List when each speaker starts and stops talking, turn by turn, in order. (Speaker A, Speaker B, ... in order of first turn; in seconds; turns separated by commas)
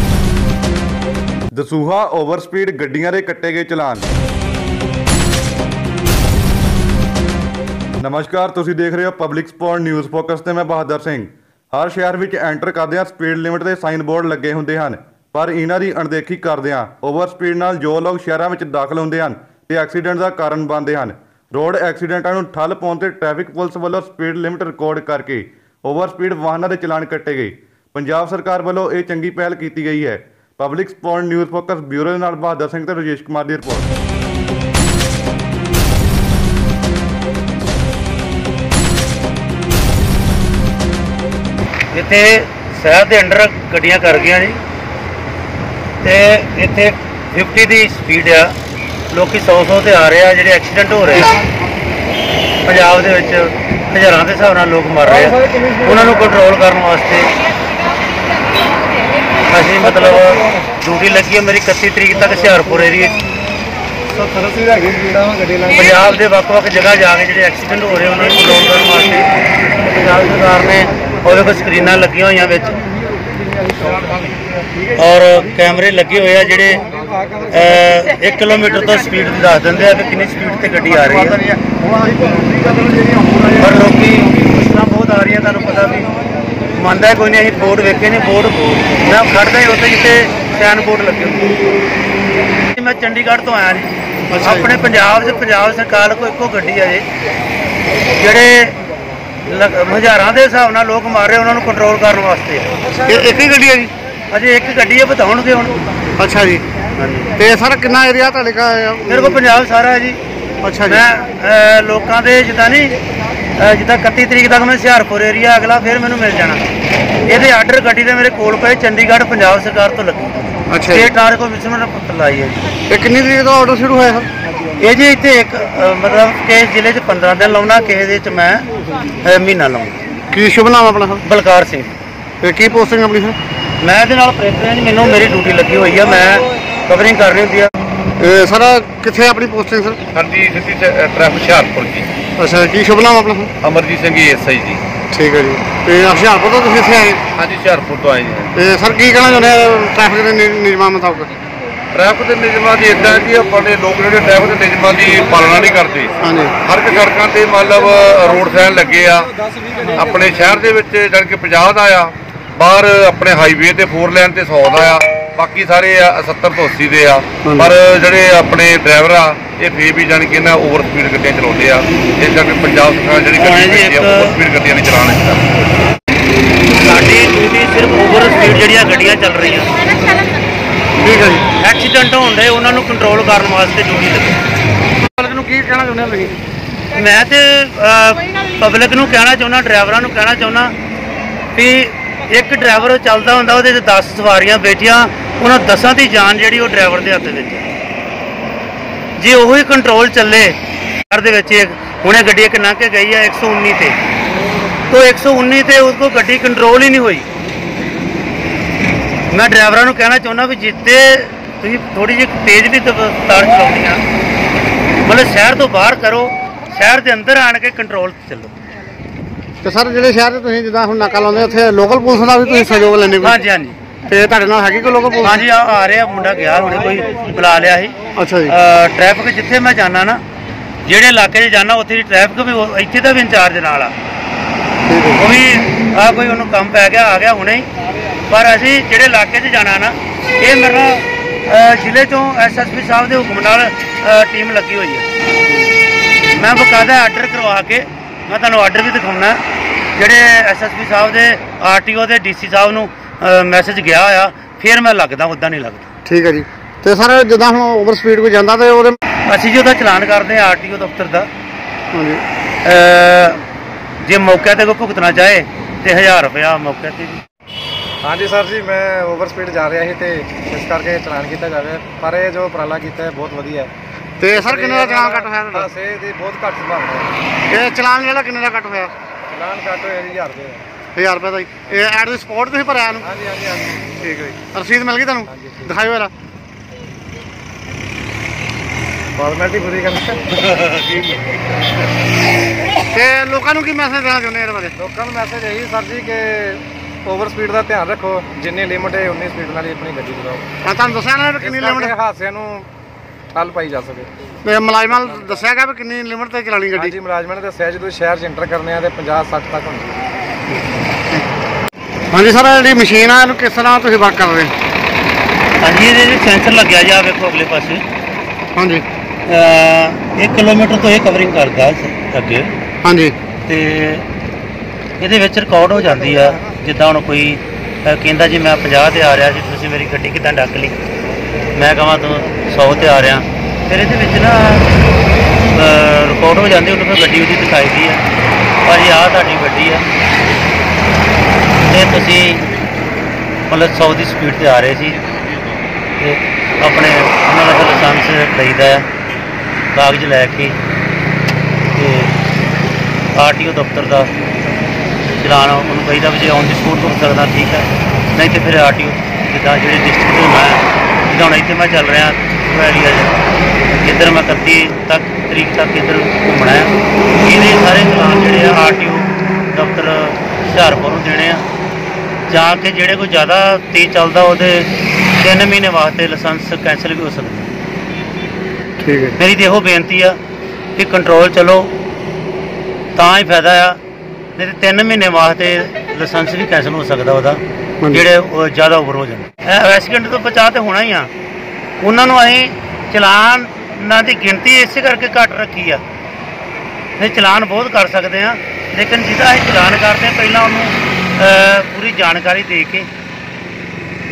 Speaker A: 1.5-4.1, Speaker A: 8.0-33.9, Speaker B: 41.9-44.6, Speaker B: 46.0-48.5, Speaker B: 49.1-51.4, Speaker B: 52.6-57.3, Speaker B: 59.5-63.2, Speaker C: 64.1-65.7, Speaker B: 65.7-69.3, Speaker B: 69.8-72.8, Speaker B: 74.9-76.9, Speaker B: 77.5-81.4, Speaker D: 82.2-83.0, Speaker B: 83.5-86.1, Speaker B: 86.7-91.8, Speaker B: 92.7-97.0, Speaker D: 94.3-94.7, Speaker B: 98.2-98.7, Speaker B: 99.4-102.7, Speaker D: 103.0-103.9, Speaker B: 104.3-105.7, Speaker D: 106.2-106.6, Speaker B: 106.9-107.3, Speaker D: 107.4-109.4, Speaker B: 109.1-110.2, Speaker D: 110.6-111.0, Speaker B: 110.8-113.0, Speaker B: 113.6-116.6, Speaker B: 117.2-122.7, Speaker D: 120.7-121.1, Speaker D: 122.9-124.3, Speaker B: 124.8-128.6, Speaker B: 129.2-130.0, Speaker D: 130.3-131.2, Speaker B: 131.2-132.0, Speaker D: 132.4-133.3, Speaker B: 133.8-137.7, Speaker D: 138.2-140.0, Speaker E: 140.1-142.1, Speaker D: 142.4-143.5, Speaker E: 143.6-144.8, Speaker D: 145.1-147.2, Speaker E: 147.3-148.5, Speaker D: 148.5-151.3, Speaker E: 151.9-156.1, Speaker D: 156.2-156.6, Speaker E: 156.6-159.3, Speaker E: 160.0-175.5, Speaker B: 173.4-174.3, Speaker B: 176.8-179.9, Speaker D: 181.0-181.4, Speaker B: 181.6-184.4, Speaker D: 185.1-186.3, Speaker B: 186.9-190.7, Speaker B: 191.5-197.7, Speaker B: 199.2-200.5, Speaker B: 201.1-203.9, Speaker B: 204.9-207.3, Speaker B: 209.3-214.0, Speaker B: 215.0-218.5, Speaker D: 219.6-223.3, Speaker B: 223.2-223.8, Speaker D: 224.1-225.4, Speaker B: 225.2-227.9, Speaker D: 228.2-228.5, Speaker B: 228.4-230.2, Speaker B: 230.8-233.9, Speaker D: 234.9-235.2, Speaker B: 235.2-237.7, Speaker B: 238.3-245.1, Speaker B: 246.3-249.4, Speaker B: 249.9-255.9, Speaker D: 256.0-259.0, Speaker B: 259.2-261.3, Speaker D: 261.9-262.2, Speaker B: 262.6-263.4, Speaker B: 264.0-267.2, Speaker C: 268.0-273.7, Speaker D: 274.2-275.7, Speaker C: 274.3-277.1, Speaker D: 277.5-278.9, Speaker C: 279.3-280.6, Speaker D: 280.9-283.1, Speaker C: 283.0-284.1, Speaker D: 284.0-286.1, Speaker C: 285.3-285.7, Speaker C: 289.1-290.2, Speaker B: 290.3-291.2, Speaker D: 292.9-294.7, Speaker C: 294.8-300.4, Speaker D: 300.6-301.9, Speaker C: 301.4-302.7, Speaker C: 303.3-304.1, Speaker D: 304.4-306.9, Speaker C: 305.1-305.4, Speaker C: 306.8-310.1, Speaker D: 312.1-314.5, Speaker B: 315.6-317.8, Speaker D: 318.6-318.8, Speaker B: 319.2-322.5, Speaker D: 322.8-323.1, Speaker B: 323.4-324.1, Speaker B: 325.0-330.8, Speaker B: 331.5-334.7, Speaker B: 335.5-338.0, Speaker B: 338.6-339.8, Speaker B: 341.6-342.5, Speaker B: 343.5-345.0, Speaker B: 346.0-348.9, Speaker B: 349.7-350.6, Speaker B: 351.7-352.2, Speaker B: 353.1-354.1, Speaker B: 355.2-363.2, Speaker B: 363.8-371.4, Speaker B: 372.3-377.5, Speaker D: 378.8-379.1, Speaker B: 379.2-380.2, Speaker B: 380.8-381.7, Speaker B: 382.9-383.8, Speaker B: 384.4-391.1, Speaker B: 391.8-395.8, Speaker B: 397.0-402.9